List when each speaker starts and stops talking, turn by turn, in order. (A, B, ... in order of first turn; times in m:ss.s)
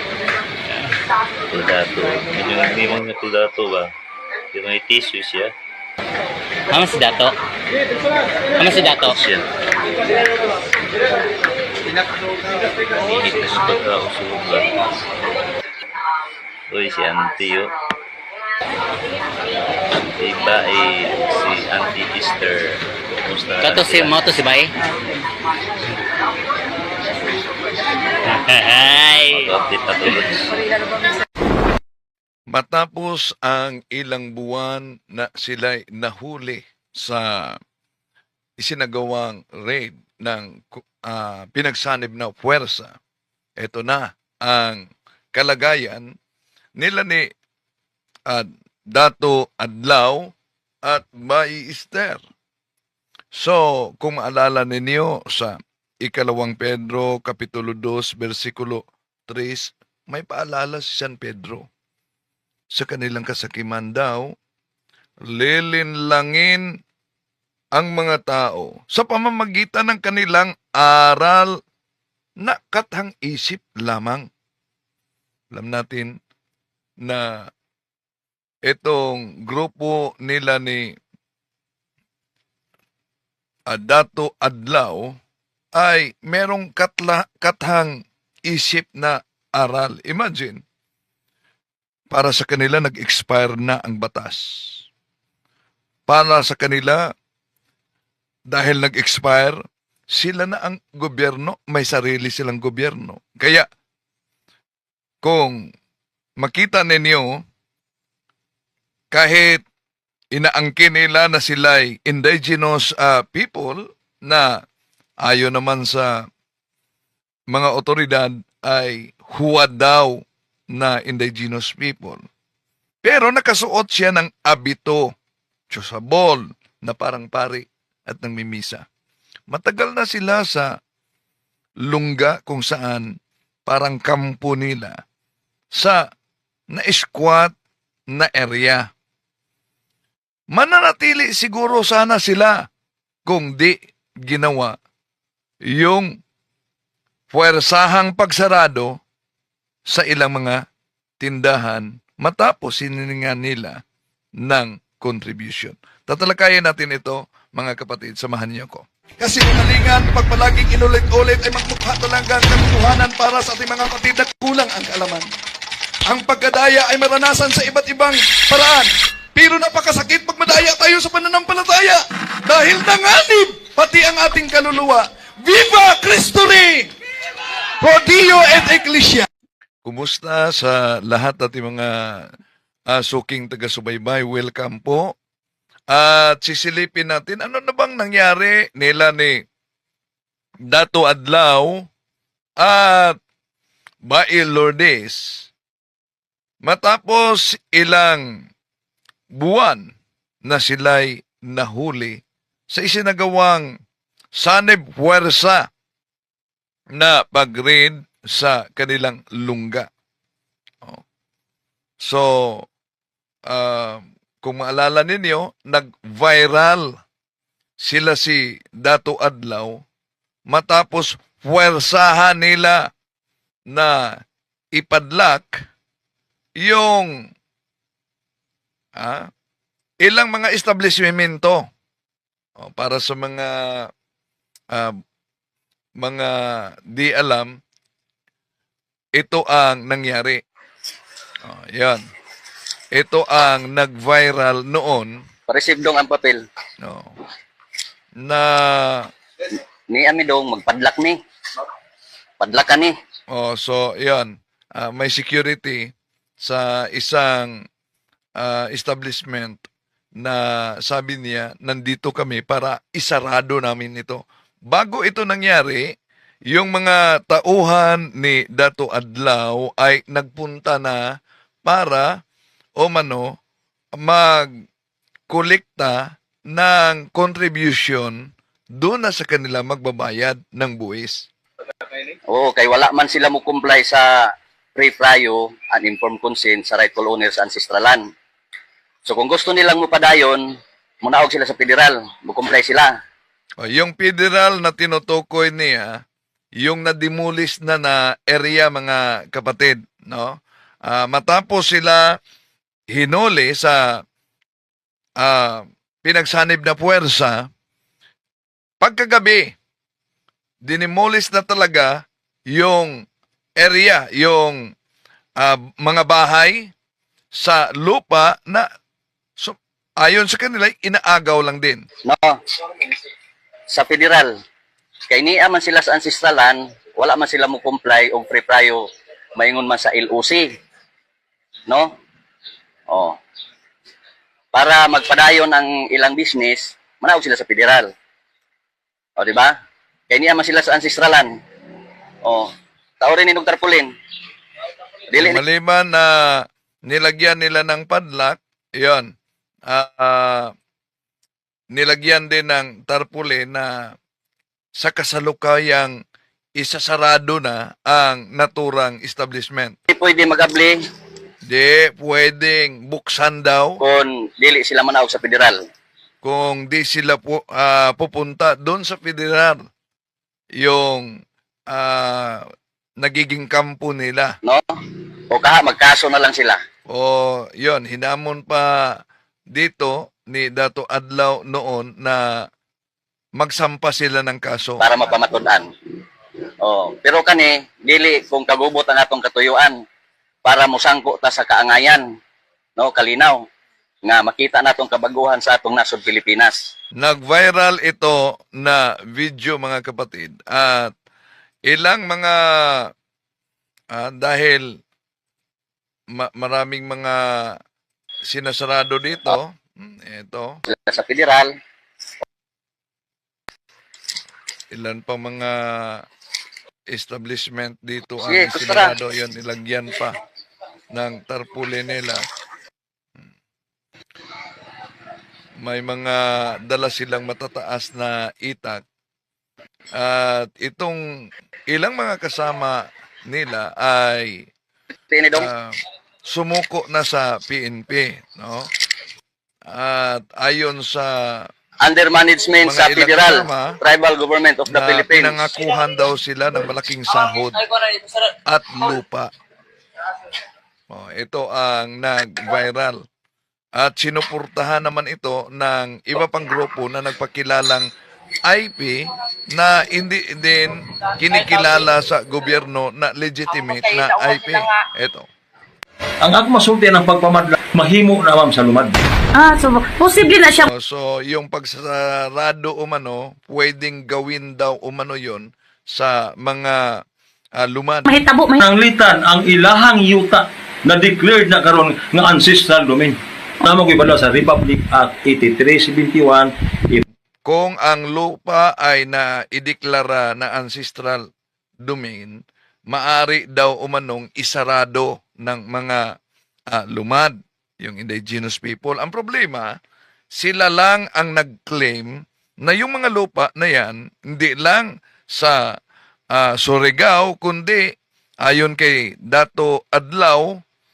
0:01.5-0:03.9 A
0:04.5-0:05.5 A
0:06.7-0:07.3 B
0:08.6-0:09.2 B
0:09.0-0:09.4 A
0:13.0-0:15.0 A
0:16.7-0:17.7 A
0:20.0-0:24.2 A
0:23.6-0:24.7 B
0:28.3-0:29.6 B
0:29.3-0:30.5 A
0:32.5-0:37.6 C
0:38.6-0:43.0 C
0:43.6-0:46.1 C
0:46.8-0:47.3 C
0:48.3-0:50.3 C
0:50.8-0:52.2 C
0:53.3-1:01.7 C
1:02.7-1:04.3 C
1:05.2-1:06.7 C
1:07.8-1:11.5 C
1:12.4-1:14.3 C
1:15.5-1:16.2 C
1:18.7-1:20.9 C
1:23.7-1:25.2 C
1:25.8-1:30.6 C
1:32.1-1:34.8 C
1:36.1-1:37.0 C
1:38.5-1:39.6 C
1:40.1-1:43.7 C
1:45.2-1:45.6 C
1:46.4-1:47.3 C
1:49.1-1:49.6 C
1:50.3-1:54.6 C
1:55.2-1:56.1 C
1:57.5-2:00.2 C
2:00.7-2:02.2 C
2:03.0-2:05.1 C
2:05.7-2:08.8 C
2:09.5-2:10.8 C
2:11.8-2:13.1 C
2:13.7-2:15.0 C
2:15.7-2:16.1 C
2:16.7-2:17.5 C
2:18.1-2:18.9 C
2:20.5-2:22.6 C
2:23.2-2:24.8 C
2:25.7-2:26.1 C
2:27.3-2:29.0 C
2:29.9-2:30.6 C
2:31.2-2:33.8 C
2:34.4-2:45.3 C
2:46.1-2:56.9 C
2:57.8-2:59.3 C
2:59.8-3:02.3 C
3:02.9-3:05.1 C
3:05.9-3:09.4 C
3:10.7-3:11.8 C
3:12.6-3:13.2 C
3:14.1-3:15.5 C
3:16.6-3:18.2 C
3:19.3-3:19.9 C
3:20.4-3:22.2 C
3:22.7-3:23.7 C
3:24.4-3:25.7 C
3:27.0-3:29.9 C
3:32.0-3:32.7 C
3:33.5-3:37.0 C
3:37.8-3:39.8 C
3:40.5-3:42.9 C
3:43.7-3:44.2 C
3:44.8-3:45.6 C
3:46.6-3:47.1 C
3:49.0-3:49.3 C
3:50.0-3:51.6 C
3:52.6-3:53.9 C
3:56.0-3:57.5 C
3:59.2-4:00.4 C
4:01.4-4:02.0 C
4:02.9-4:05.2 C
4:05.5-4:06.4 D
4:06.8-4:07.2 C
4:08.2-4:09.1 C
4:09.5-4:11.2 D
4:12.4-4:13.0 D
4:13.3-4:17.6 C
4:18.4-4:19.6 C
4:20.2-4:25.9 C
4:26.5-4:31.0 C
4:31.6-4:32.2 C
4:32.8-4:33.3 C
4:34.0-4:34.5 C
4:35.3-4:41.3 C
4:42.3-4:48.1 D
4:49.1-4:53.0 D
4:53.6-4:56.0 C
4:56.6-5:02.2 C
5:02.9-5:04.0 C
5:05.2-5:07.5 C
5:08.8-5:09.5 C
5:10.6-5:12.0 C
5:12.5-5:13.0 C
5:13.6-5:14.7 C
5:15.4-5:16.7 C
5:17.3-5:18.7 C
5:19.4-5:21.8 C
5:22.0-5:22.4 D
5:23.7-5:24.3 D
5:25.1-5:30.6 D
5:31.7-5:31.9 D
5:32.9-5:33.2 D
5:34.5-5:37.9 D
5:39.2-5:39.5 D
5:40.1-5:41.4 D
5:42.2-5:43.9 D
5:45.1-5:45.4 D
5:45.2-5:49.1 C
5:49.7-5:50.5 C
5:51.7-5:53.9 C
5:54.8-5:55.9 C
5:56.6-5:59.8 C
5:59.9-6:00.8 D
6:01.4-6:03.8 C
6:03.8-6:05.7 D
6:06.2-6:09.6 C
6:10.6-6:11.2 C
6:11.7-6:12.5 C
6:13.0-6:14.4 C
6:14.4-6:14.8 D
6:15.3-6:16.6 D
6:16.9-6:19.0 C
6:19.5-6:22.5 C
6:23.4-6:24.8 C
6:24.8-6:25.7 D
6:26.6-6:29.8 D
6:30.4-6:32.0 D
6:32.8-6:33.4 D
6:34.0-6:36.6 D
6:37.0-6:40.9 C
6:41.7-6:42.9 C
6:43.9-6:44.6 C
6:46.1-6:47.6 C
6:48.3-6:50.6 C
6:50.7-6:51.5 D
6:54.7-6:56.0 C
6:56.9-7:00.2 C
6:58.2-6:58.9 D
7:00.9-7:02.2 C
7:05.6-7:08.8 C
7:10.0-7:11.0 C
7:11.7-7:14.5 C
7:15.1-7:15.5 D
7:15.4-7:18.7 C
7:19.7-7:21.5 C
7:21.8-7:25.4 D
7:22.6-7:23.8 C
7:24.7-7:27.6 C
7:28.5-7:29.3 C
7:30.9-7:33.0 C
7:33.8-7:37.9 C
7:38.4-7:45.3 C
7:46.2-7:49.0 E
7:49.3-7:50.7 F
7:50.7-7:57.0 C
7:57.6-7:58.1 C
7:58.1-7:58.6 F
7:58.6-8:07.0 E
8:07.4-8:11.3 C
8:11.8-8:12.4 C
8:12.9-8:16.0 C
8:16.7-8:19.7 C
8:20.3-8:25.8 C
8:26.3-8:27.8 C
8:28.4-8:30.6 C